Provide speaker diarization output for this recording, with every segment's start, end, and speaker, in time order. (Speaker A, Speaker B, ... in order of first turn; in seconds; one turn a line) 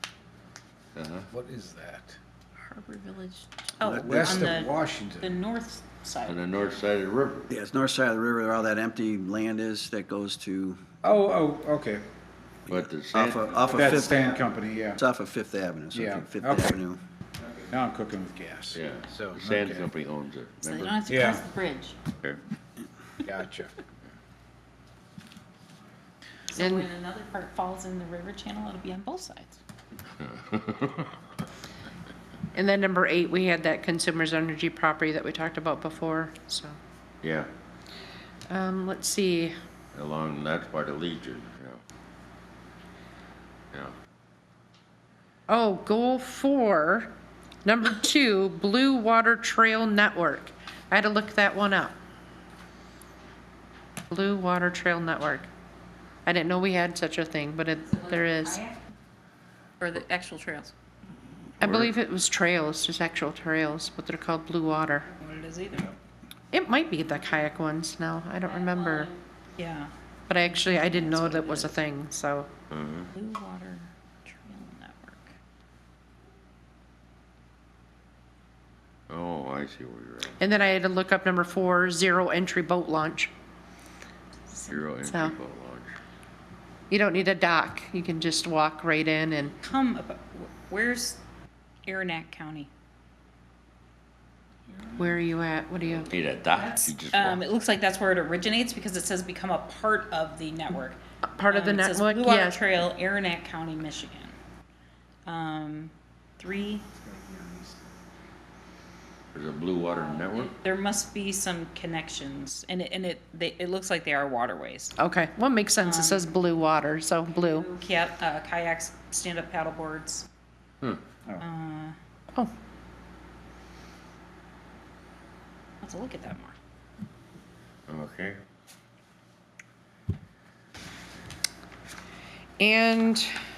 Speaker A: 0.9-1.3
Speaker B: 1.3-2.2
Speaker C: 2.7-6.5
Speaker D: 3.8-4.6
Speaker B: 4.0-5.3
Speaker A: 6.2-7.5
Speaker D: 7.5-10.8
Speaker B: 11.0-12.0
Speaker D: 12.7-17.0
Speaker A: 12.7-14.0
Speaker B: 13.7-15.0
Speaker B: 15.9-16.8
Speaker B: 17.7-19.9
Speaker A: 18.7-21.0
Speaker C: 20.6-22.0
Speaker B: 21.1-21.4
Speaker B: 23.2-23.7
Speaker C: 26.5-29.6
Speaker E: 26.6-26.9
Speaker A: 30.2-31.2
Speaker E: 32.5-36.8
Speaker A: 37.2-37.5
Speaker E: 38.5-39.5
Speaker A: 39.9-41.8
Speaker E: 45.5-47.1
Speaker E: 47.6-51.9
Speaker E: 54.1-55.5
Speaker E: 56.2-58.6
Speaker C: 57.8-58.8
Speaker C: 59.8-60.7
Speaker E: 61.6-65.1
Speaker A: 61.6-61.9
Speaker C: 65.1-66.0
Speaker E: 66.5-69.1
Speaker C: 68.5-69.9
Speaker E: 70.3-72.5
Speaker C: 70.4-71.7
Speaker A: 72.7-73.1
Speaker C: 73.1-75.3
Speaker A: 79.1-80.4
Speaker E: 80.4-83.3
Speaker C: 84.5-84.8
Speaker A: 84.7-86.0
Speaker E: 85.0-85.3
Speaker E: 86.9-89.5
Speaker C: 89.6-91.2
Speaker C: 91.8-92.7
Speaker E: 95.0-96.1
Speaker A: 95.9-97.4
Speaker C: 96.8-104.3
Speaker E: 101.3-102.6
Speaker C: 105.2-106.8
Speaker B: 107.0-107.8
Speaker A: 109.3-110.5
Speaker C: 109.8-114.9
Speaker E: 115.0-117.7
Speaker C: 115.8-116.3
Speaker C: 117.3-120.3
Speaker C: 121.4-122.0
Speaker C: 125.8-126.5
Speaker A: 127.9-128.4
Speaker E: 132.6-133.3